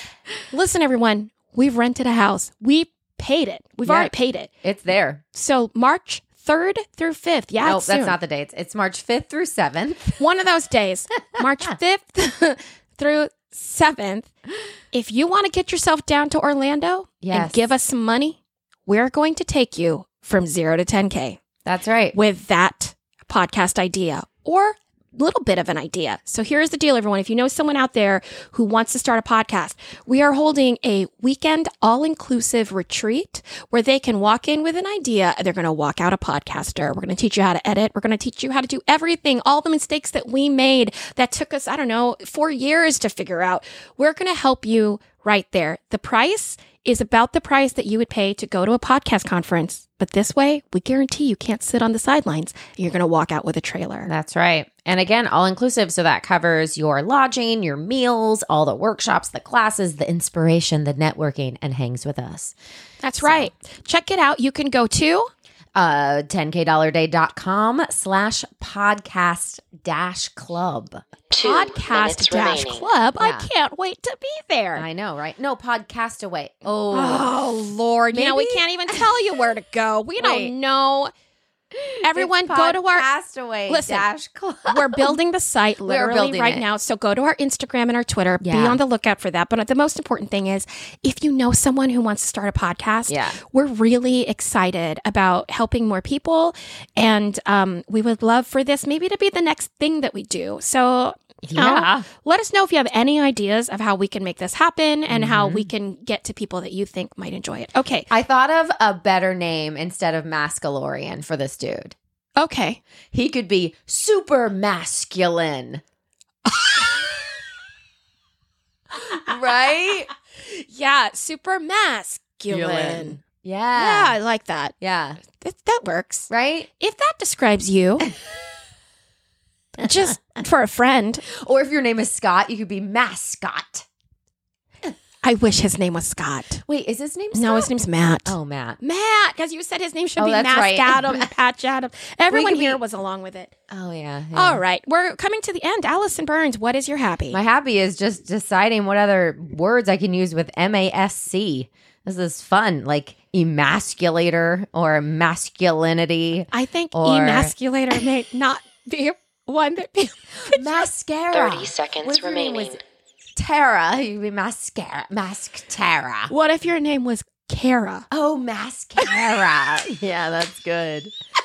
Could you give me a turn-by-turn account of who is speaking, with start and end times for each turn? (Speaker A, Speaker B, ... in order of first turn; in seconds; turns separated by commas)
Speaker A: 0.5-4.5, Speaker B: 3.8-4.1, Speaker B: 4.6-5.2, Speaker A: 5.3-8.2, Speaker B: 7.6-10.2, Speaker A: 10.2-14.3, Speaker B: 11.4-11.8, Speaker A: 14.9-21.4, Speaker B: 17.2-17.6, Speaker B: 21.7-22.2, Speaker A: 22.1-54.1, Speaker B: 54.0-62.5, Speaker A: 63.0-65.3, Speaker B: 63.2-63.5, Speaker B: 65.8-71.0, Speaker C: 71.3-72.9, Speaker A: 71.4-74.9, Speaker B: 73.2-73.5, Speaker B: 74.8-77.4, Speaker A: 76.9-81.1, Speaker B: 78.1-79.0, Speaker B: 80.2-80.5, Speaker B: 81.9-85.2, Speaker A: 82.0-83.1, Speaker A: 83.7-84.1, Speaker A: 84.7-108.1, Speaker B: 85.8-86.7, Speaker B: 88.4-88.8, Speaker B: 93.1-93.4, Speaker B: 101.4-102.1, Speaker B: 105.1-105.7, Speaker B: 108.1-112.0, Speaker A: 112.4-112.8, Speaker B: 113.1-115.8, Speaker A: 116.5-117.2, Speaker B: 119.2-120.1, Speaker A: 120.5-123.2, Speaker B: 122.5-124.2, Speaker A: 123.8-124.8, Speaker B: 124.8-125.2, Speaker A: 125.3-128.1, Speaker B: 126.3-126.7, Speaker A: 129.8-131.3, Speaker B: 131.3-133.9, Speaker A: 135.2-136.6, Speaker B: 136.7-137.7, Speaker A: 137.3-143.5, Speaker B: 138.2-138.8, Speaker B: 140.2-141.3, Speaker B: 142.3-142.8, Speaker B: 143.7-144.6, Speaker A: 144.3-147.4, Speaker B: 147.3-158.0, Speaker A: 156.5-160.8, Speaker B: 160.5-162.8, Speaker C: 161.3-162.8, Speaker B: 163.4-166.3, Speaker A: 166.3-168.1, Speaker B: 168.1-171.1